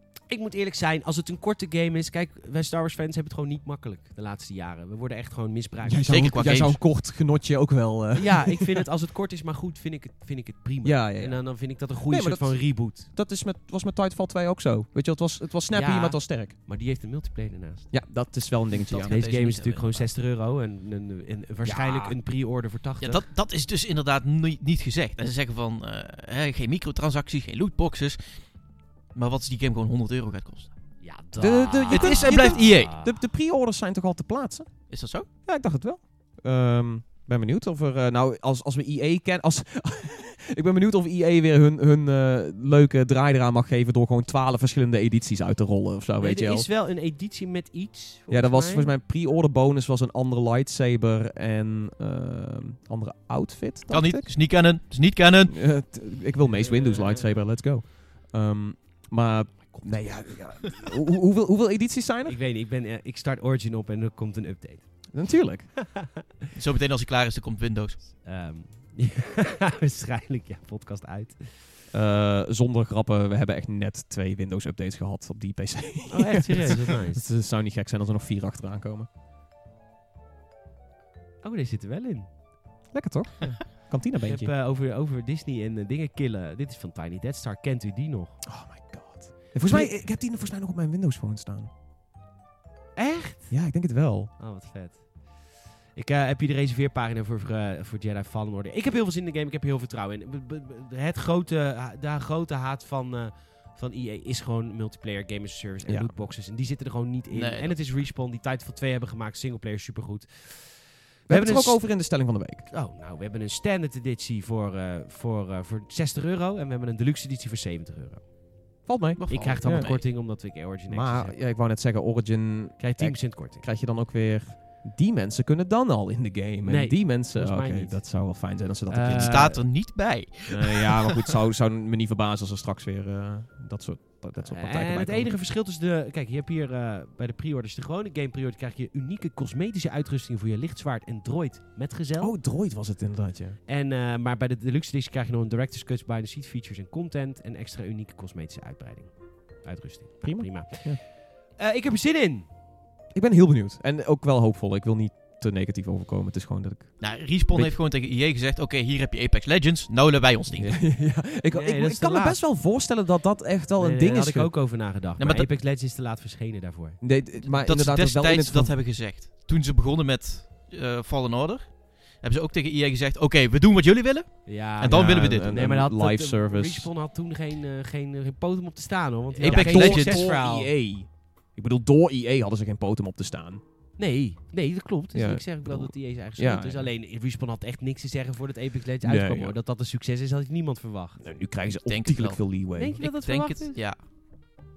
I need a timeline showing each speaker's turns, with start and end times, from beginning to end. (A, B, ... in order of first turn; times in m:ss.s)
0:00.3-0:06.1 A
0:05.8-0:08.8 B
0:06.0-0:06.8 C
0:08.1-0:13.1 A
0:10.8-0:16.5 B
0:15.7-0:17.9 A
0:17.9-0:19.2 B
0:18.8-0:20.1 C
0:19.0-0:23.2 A
0:21.6-0:22.2 B
0:23.0-0:28.4 C
0:29.1-0:30.7 C
0:31.0-0:33.2 A
0:31.4-0:34.9 B
0:31.9-0:32.9 C
0:34.9-0:35.3 C
0:35.4-0:46.7 B
0:46.2-0:48.9 A
0:48.3-0:54.3 B
0:53.9-0:55.6 C
0:55.5-1:02.4 B
0:56.4-0:57.3 A
0:59.7-1:00.2 A
1:02.3-1:05.0 A
1:05.1-1:05.8 B
1:05.8-1:06.3 A
1:06.6-1:08.0 C
1:08.2-1:11.6 A
1:11.9-1:19.1 B
1:16.1-1:17.2 A
1:21.4-1:22.3 A
1:22.9-1:24.5 B
1:24.2-1:28.4 A
1:28.4-1:31.7 B
1:29.6-1:29.9 A
1:33.0-1:33.6 A
1:33.5-1:34.3 B
1:34.4-1:35.1 A
1:36.0-1:51.9 A
1:45.9-1:46.1 B
1:47.3-1:47.9 C
1:51.3-1:52.7 B
1:52.7-1:58.3 A
1:58.9-2:00.0 B
1:59.2-2:00.0 C
1:59.3-2:01.4 A
2:00.9-2:09.6 B
2:02.8-2:03.7 A
2:06.6-2:08.1 A
2:08.9-2:09.6 A
2:09.2-2:11.4 C
2:10.5-2:15.3 B
2:14.5-2:22.3 A
2:22.2-2:23.6 B
2:23.7-2:32.5 A
2:30.2-2:31.0 B
2:33.1-2:37.8 B
2:37.0-2:40.8 C
2:40.6-2:44.5 B
2:41.5-2:42.4 A
2:43.8-2:47.0 A
2:45.2-2:45.5 C
2:47.0-2:48.7 B
2:47.4-2:55.5 C
2:54.5-3:00.7 A
2:54.9-2:56.9 B
2:59.4-3:00.3 C
2:59.4-3:03.6 B
3:04.0-3:11.3 A
3:05.1-3:06.9 B
3:09.0-3:09.6 B
3:11.2-3:13.0 B
3:11.8-3:14.0 C
3:12.8-3:13.8 A